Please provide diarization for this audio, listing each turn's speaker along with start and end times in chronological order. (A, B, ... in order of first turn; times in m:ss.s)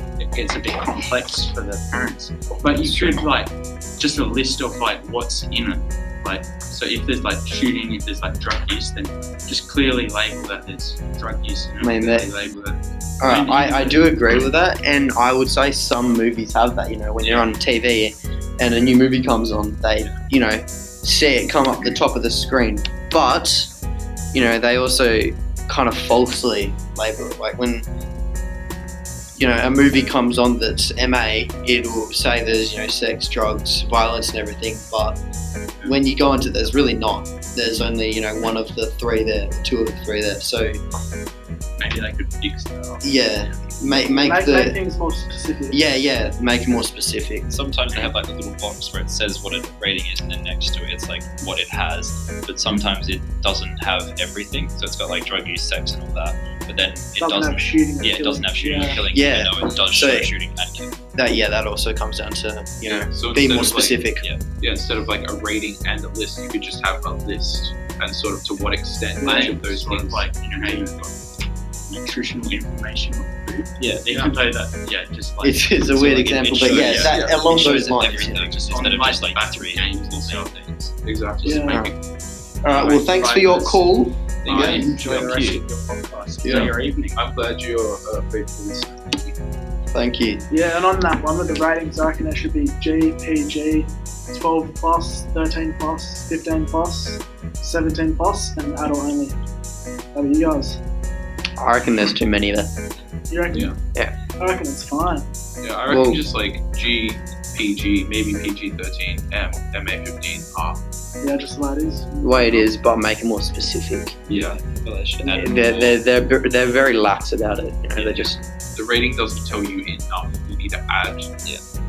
0:00.2-0:14.1 A
0:02.8-0:03.2 B
0:11.8-0:12.3 B
0:13.2-0:23.7 B
0:24.3-0:27.8 B
0:29.4-0:35.2 B
0:35.8-0:40.8 B
0:41.8-0:43.0 A
0:43.0-0:44.8 B
0:44.2-0:45.8 C
0:45.7-0:47.4 B
0:47.5-1:01.0 D
0:57.2-0:59.0 C
0:59.1-1:00.3 B
1:01.2-1:04.2 B
1:02.8-1:04.0 E
1:04.6-1:10.3 E
1:09.2-1:09.6 C
1:09.2-1:11.1 A
1:11.9-1:17.1 A
1:13.8-1:14.2 D
1:15.4-1:18.6 B
1:16.5-1:20.9 D
1:16.9-1:17.6 E
1:18.7-1:20.6 A
1:21.0-1:21.9 E
1:21.4-1:21.9 A
1:21.4-1:21.8 C
1:21.7-1:21.9 B
1:22.6-1:24.9 B
1:22.6-1:23.9 A
1:24.4-1:25.6 E
1:24.4-1:27.2 A
1:26.4-1:26.7 B
1:26.5-1:29.3 E
1:29.9-1:30.4 B
1:30.5-1:39.4 C
1:40.1-1:40.8 C
1:41.6-1:42.7 B
1:43.3-1:43.7 C
1:43.5-1:43.8 E
1:44.4-1:45.3 C
1:45.6-1:50.8 E
1:45.9-1:46.2 B
1:51.2-1:52.7 C
1:52.2-1:54.2 B
1:54.3-1:56.0 D
1:55.2-1:58.4 B
1:58.0-2:01.3 E